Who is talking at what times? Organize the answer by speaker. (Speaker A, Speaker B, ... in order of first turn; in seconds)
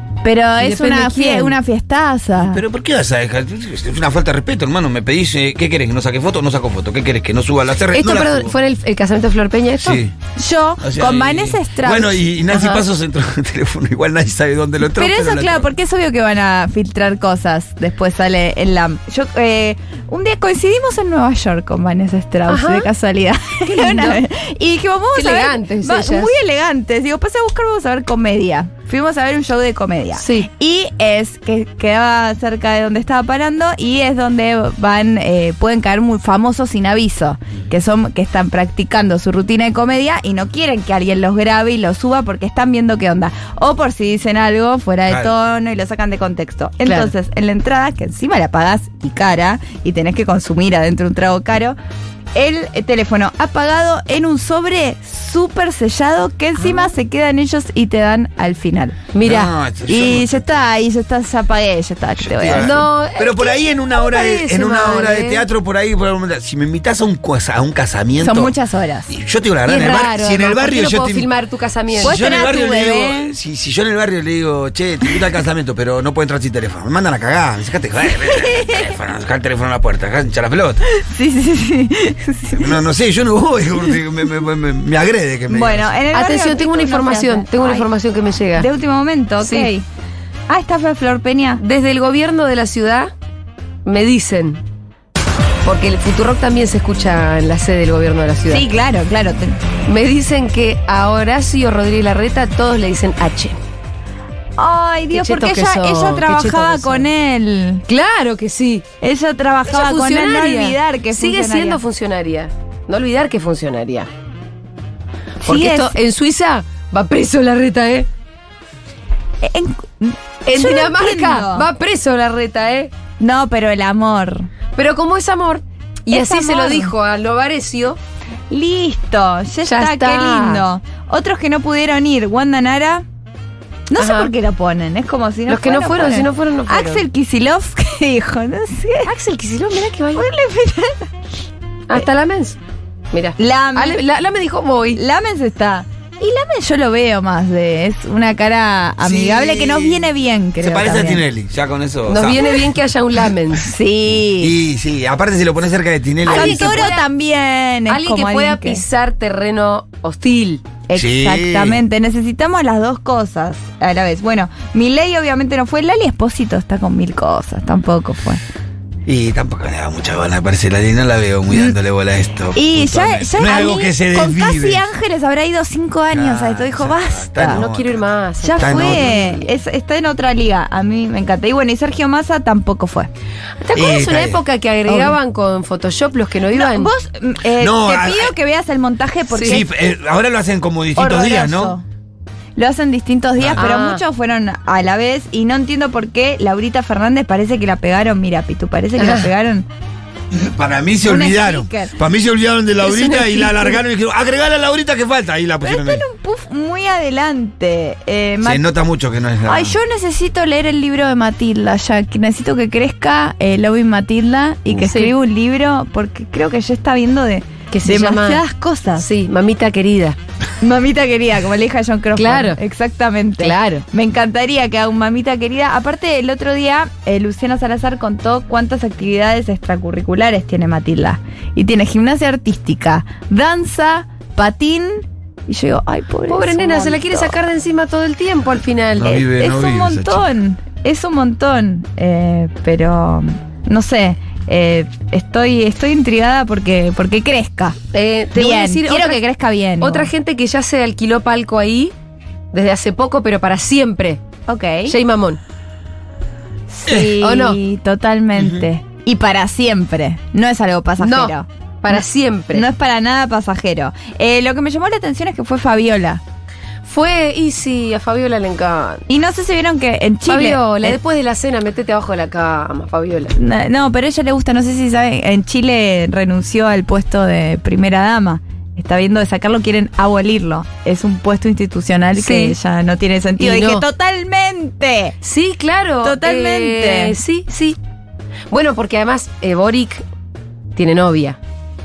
Speaker A: 0.2-2.6, 10.4-12.2, 14.8-51.8, 52.3-59.1, 59.9-62.9, 68.2-69.1, 72.0-73.3, 78.3-78.8, 80.8-82.8, 85.5-87.8, 88.5-89.8, 90.5-91.6, 98.5-99.6, 104.6-107.8, 109.0-111.8, 115.4-115.9, 119.4-121.7, 123.2-124.5, 126.1-126.9, 128.5-133.0, 133.9-139.1, 140.1-141.1, 143.4-144.0, 144.9-151.2, 153.6-154.5, 156.2-158.8, 160.9-168.4, 171.5-171.7, 172.5-177.7, 178.4-183.1, 184.9-185.2, 186.5-189.7, 190.9-191.8, 192.6-199.7, 201.0-201.9, 205.6-208.7, 209.4-219.1, 220.6-237.3, 239.3-247.8, 248.3-250.1, 254.5-254.9, 256.7-266.2, 269.1-271.0, 273.3-285.1, 286.0-287.2
Speaker B: 0.6-1.6, 7.9-10.0, 22.5-22.9, 23.6-24.2, 25.1-26.4, 30.2-30.5, 46.8-47.1, 56.6-56.9, 59.1-59.5, 62.5-65.4, 69.7-72.3, 86.1-88.7, 89.4-89.7, 91.6-93.1, 93.8-94.6, 95.6-98.7, 99.9-103.6, 105.1-107.1, 107.9-108.8, 109.7-114.1, 115.4-118.1, 120.5-122.9, 124.7-128.0, 129.6-130.6, 134.0-134.3, 135.5-137.0, 139.0-140.3, 141.9-142.6, 143.1-145.0, 152.1-153.7, 156.2-157.1, 157.9-160.6, 177.5-179.5, 183.6-186.9, 189.3-189.6, 193.6-194.0, 198.9-199.3, 202.8-203.8, 214.8-215.1, 217.7-218.4, 219.0-220.2, 222.2-222.6, 223.4-223.8, 236.3-239.2, 247.9-249.2, 249.8-251.9, 252.5-254.2, 254.9-255.4, 257.2-257.6, 261.0-262.6, 266.9-269.0, 270.2-273.4, 282.1-282.6, 283.4-283.9, 285.2-287.8, 288.5-290.0, 290.8-291.4
Speaker C: 2.4-8.5, 9.8-10.1, 10.8-15.7, 45.1-45.3, 59.2-60.6, 62.2-68.6, 69.1-71.3, 71.9-80.8, 82.5-85.9, 149.0-150.0, 150.6-152.7, 154.1-156.9, 160.9-161.8, 169.1-174.9, 176.1-179.2, 183.7-184.4, 187.6-188.3, 189.4-191.8, 193.4-193.6, 200.3-206.0, 208.4-209.8, 238.9-240.2, 256.9-257.1, 258.4-258.6